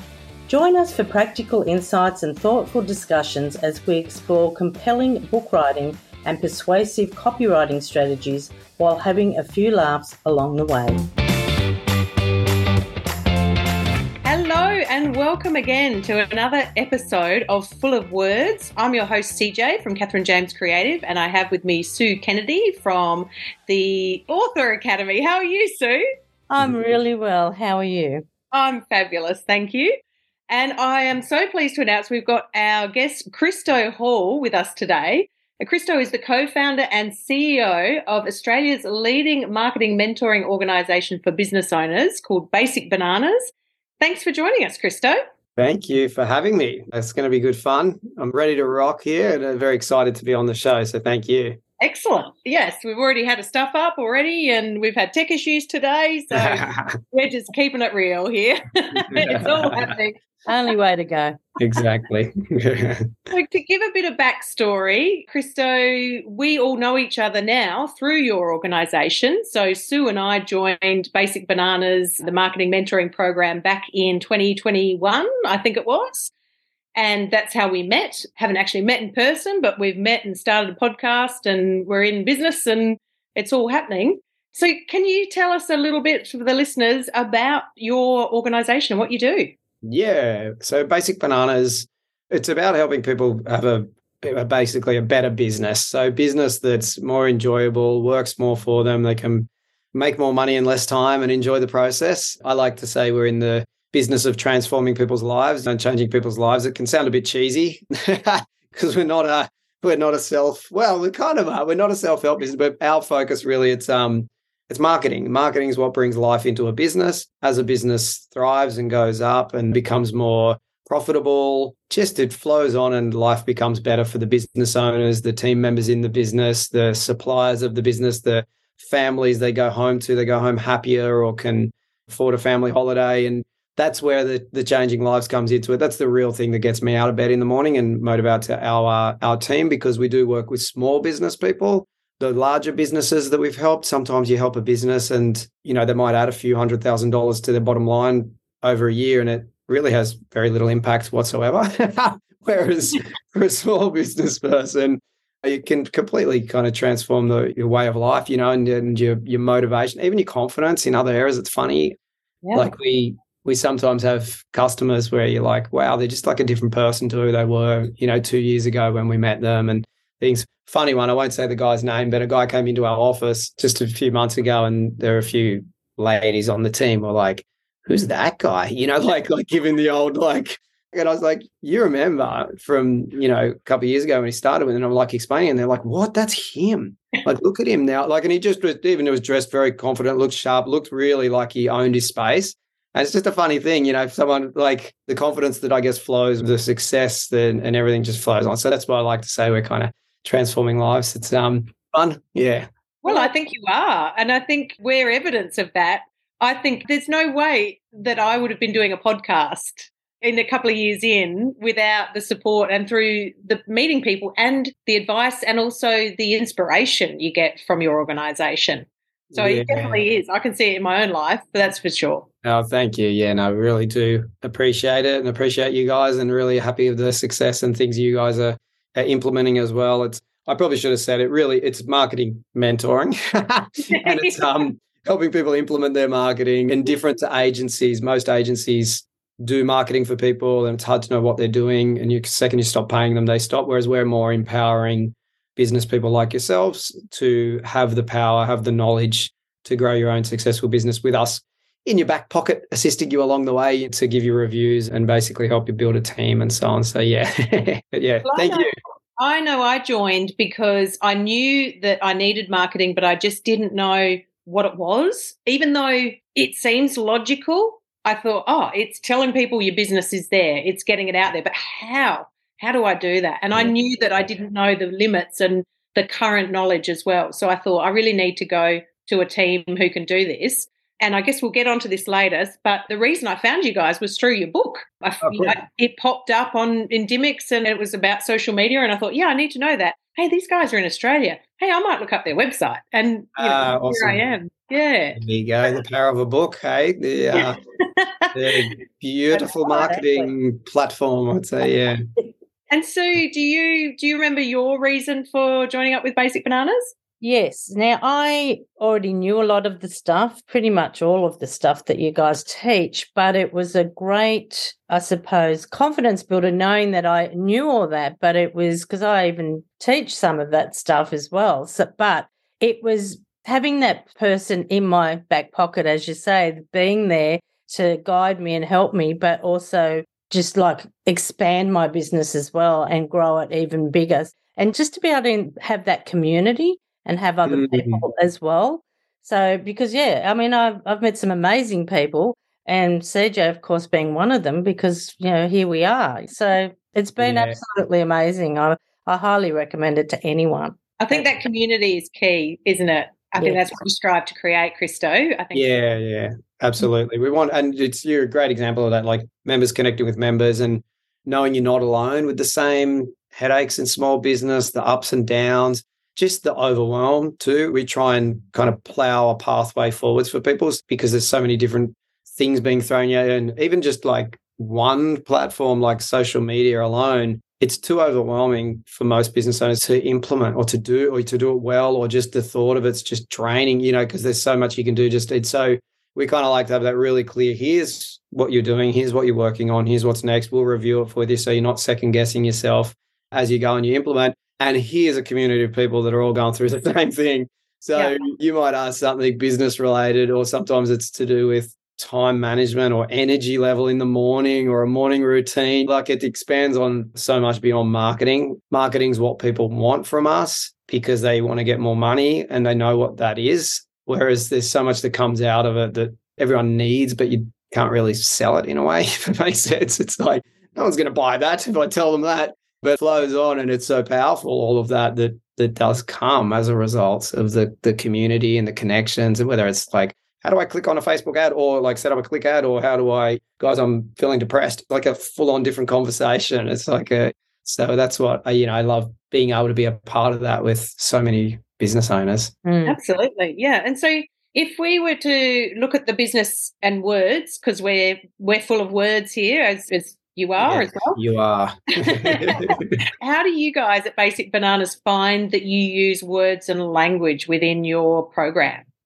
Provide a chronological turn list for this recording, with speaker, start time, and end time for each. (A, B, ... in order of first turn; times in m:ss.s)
0:00.5-0:11.0 A
0:14.2-0:26.0 B
0:26.5-0:28.2 A
0:26.6-0:26.9 C
0:28.5-0:29.9 B
0:30.5-0:45.2 B
0:45.6-0:51.6 C
0:51.8-1:00.2 B
0:56.3-0:57.0 C
0:59.1-0:59.9 C
1:00.4-1:01.4 A
1:01.6-1:03.1 C
1:03.3-1:16.3 B
1:17.0-1:29.5 B
1:29.8-2:42.0 C
2:42.5-3:22.7 C
3:23.0-3:42.3 B
3:39.3-3:40.0 C
3:42.4-4:18.7 C
3:53.9-3:54.4 B
4:18.2-4:55.2 B
4:45.2-4:45.5 C
4:53.4-4:54.2 C
4:55.2-4:57.6 C
4:57.3-4:58.6 B
4:58.3-5:02.0 C
4:59.4-5:00.0 B
5:02.7-5:06.9 B
5:07.2-5:51.3 A
5:37.5-5:38.0 C
5:47.2-5:47.6 C
5:51.0-5:55.7 B
5:55.5-7:22.5 C
7:22.6-7:23.0 A
7:22.8-7:31.2 B
7:30.6-7:33.0 C
7:32.0-7:38.8 B